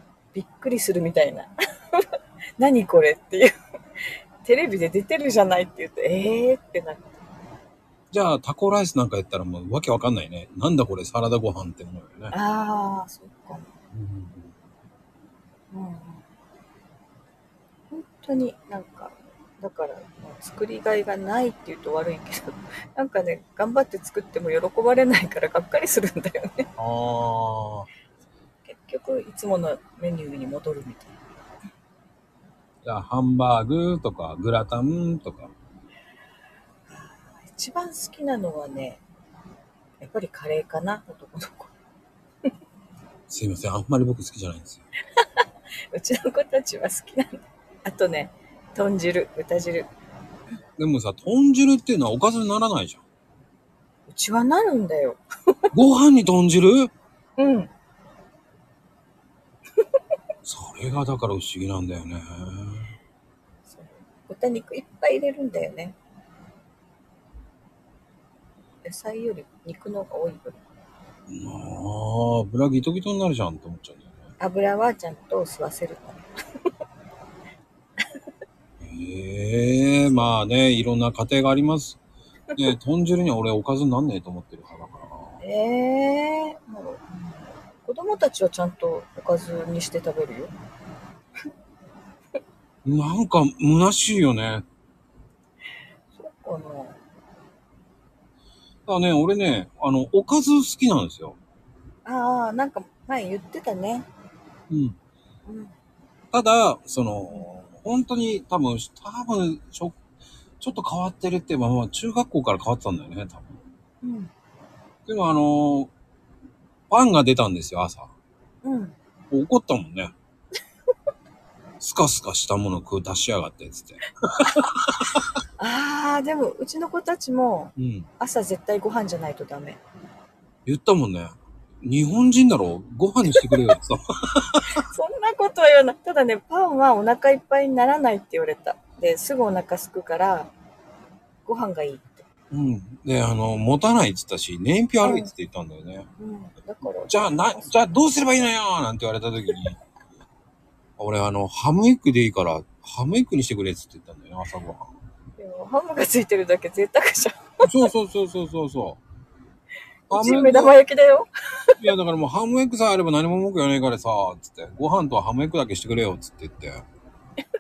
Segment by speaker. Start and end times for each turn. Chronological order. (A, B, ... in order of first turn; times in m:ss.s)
0:00.3-0:02.1 A
0:02.6-0:07.1 A
0:08.1-0:12.4 B
0:12.3-0:13.7 A
0:13.9-0:14.5 B
0:15.7-0:16.2 A
0:17.9-0:26.7 A
0:26.8-0:27.9 B
0:28.6-0:31.2 A
0:32.8-0:35.5 B
0:36.9-0:39.0 A
0:40.0-0:41.7 A
0:43.3-0:44.8 B
0:45.9-0:49.9 A
0:50.8-0:53.0 B
0:54.1-0:55.7 A
0:55.7-0:56.9 B
0:57.4-0:57.7 A
1:00.4-1:02.9 B
1:03.7-1:06.0 A
1:08.8-1:10.6 A
1:11.3-1:14.1 B
1:14.4-1:16.3 A
1:18.8-1:22.0 B
1:22.6-1:25.4 B
1:25.4-1:30.5 A
1:32.8-1:34.6 B
1:36.1-1:37.0 A
1:38.9-1:41.4 B
1:42.0-1:44.1 A
1:44.7-1:45.0 B
1:45.5-1:45.7 A
1:46.3-1:50.0 B
1:50.6-1:53.6 B
1:54.0-1:54.3 A
1:55.1-1:55.9 B
1:56.9-1:58.1 B
1:58.6-1:59.0 A
1:59.3-2:00.1 B
2:01.8-2:05.2 B
2:05.6-2:09.8 A
2:07.8-2:08.1 B
2:10.7-2:14.8 B
2:13.4-2:13.7 A
2:14.8-2:20.5 A
2:21.5-2:22.3 A
2:22.5-2:26.1 B
2:25.0-2:25.3 A
2:26.2-2:27.8 A
2:27.1-2:29.8 B
2:31.0-2:34.9 B
2:35.4-2:37.8 A
2:37.6-2:39.0 B
2:40.1-2:41.8 A
2:40.1-2:40.8 B
2:41.8-2:46.8 B